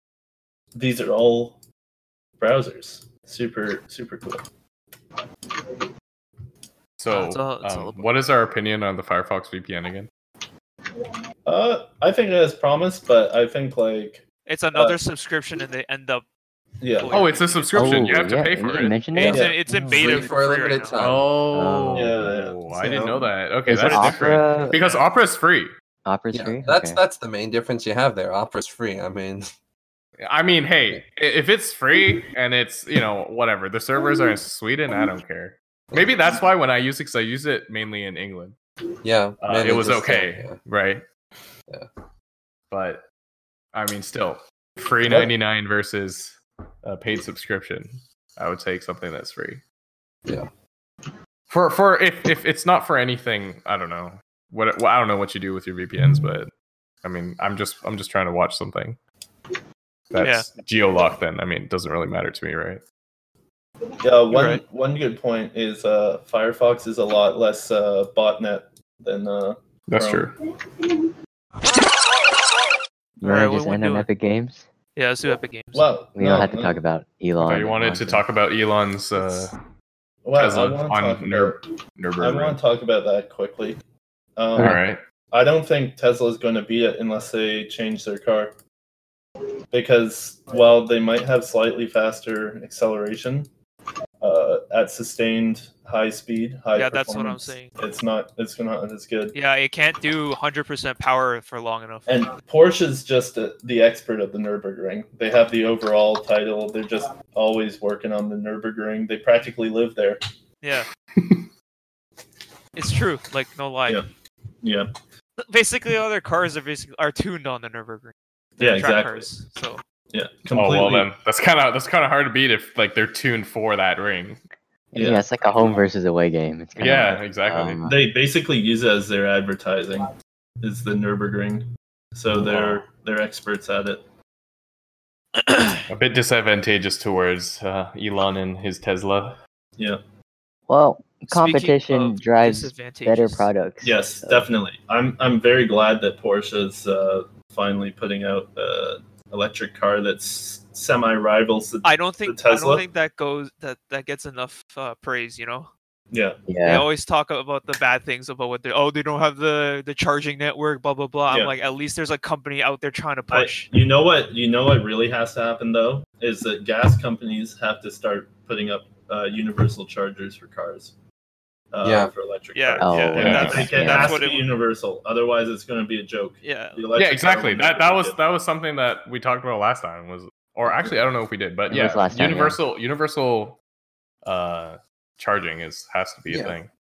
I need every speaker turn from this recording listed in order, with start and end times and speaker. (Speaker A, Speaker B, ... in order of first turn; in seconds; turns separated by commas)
Speaker A: 0.7-1.6, Speaker A: 2.4-4.5, Speaker B: 7.0-10.1, Speaker C: 7.1-8.1, Speaker A: 11.4-15.0, Speaker C: 14.4-16.2, Speaker A: 16.8-17.2, Speaker C: 17.0-18.3, Speaker B: 17.1-19.4, Speaker D: 17.7-20.2, Speaker C: 19.1-21.0, Speaker A: 19.2-19.6, Speaker E: 19.9-21.3, Speaker B: 20.9-25.7, Speaker D: 21.5-23.0, Speaker A: 21.9-22.6, Speaker E: 22.8-23.3, Speaker D: 23.7-24.8, Speaker C: 24.7-25.0, Speaker D: 26.0-27.0, Speaker E: 26.3-29.5, Speaker B: 30.2-38.5, Speaker E: 39.0-40.6, Speaker B: 39.4-41.0, Speaker B: 42.7-43.0, Speaker B: 43.7-49.6, Speaker B: 51.5-56.5, Speaker B: 57.0-59.0, Speaker B: 60.1-62.8, Speaker C: 60.2-60.5, Speaker A: 64.0-70.3, Speaker C: 64.3-64.6, Speaker B: 69.9-70.3, Speaker C: 73.2-74.1, Speaker D: 73.2-74.7, Speaker C: 74.9-75.9, Speaker A: 75.7-76.8, Speaker D: 76.1-78.2, Speaker B: 77.4-79.5, Speaker A: 80.2-81.6, Speaker B: 80.4-82.6, Speaker A: 82.2-83.8, Speaker A: 84.4-84.8, Speaker B: 84.5-85.0, Speaker A: 85.3-88.5, Speaker A: 89.7-93.5, Speaker A: 94.2-99.4, Speaker C: 96.7-97.7, Speaker C: 99.3-102.2, Speaker A: 102.1-110.2, Speaker C: 110.6-110.9, Speaker B: 111.2-111.5, Speaker C: 112.8-114.0, Speaker A: 114.6-114.9, Speaker C: 115.4-119.8, Speaker A: 118.6-119.3, Speaker A: 120.1-121.1, Speaker B: 120.5-124.4, Speaker D: 124.9-128.0, Speaker A: 125.0-125.2, Speaker B: 126.8-127.8, Speaker A: 127.9-130.1, Speaker A: 130.6-134.0, Speaker B: 132.4-132.8, Speaker B: 135.9-139.4, Speaker D: 140.7-144.5, Speaker C: 141.3-143.5, Speaker A: 143.8-152.9, Speaker C: 151.8-155.7, Speaker A: 156.1-156.5, Speaker D: 156.5-156.9, Speaker C: 156.6-163.7, Speaker A: 161.3-161.5, Speaker A: 163.3-170.9, Speaker A: 171.7-178.2, Speaker E: 171.8-172.1, Speaker C: 172.5-174.5, Speaker D: 172.8-174.2, Speaker B: 173.2-173.7, Speaker C: 176.4-176.9, Speaker B: 176.9-183.6, Speaker D: 181.7-182.6, Speaker B: 184.2-186.7, Speaker E: 186.3-186.6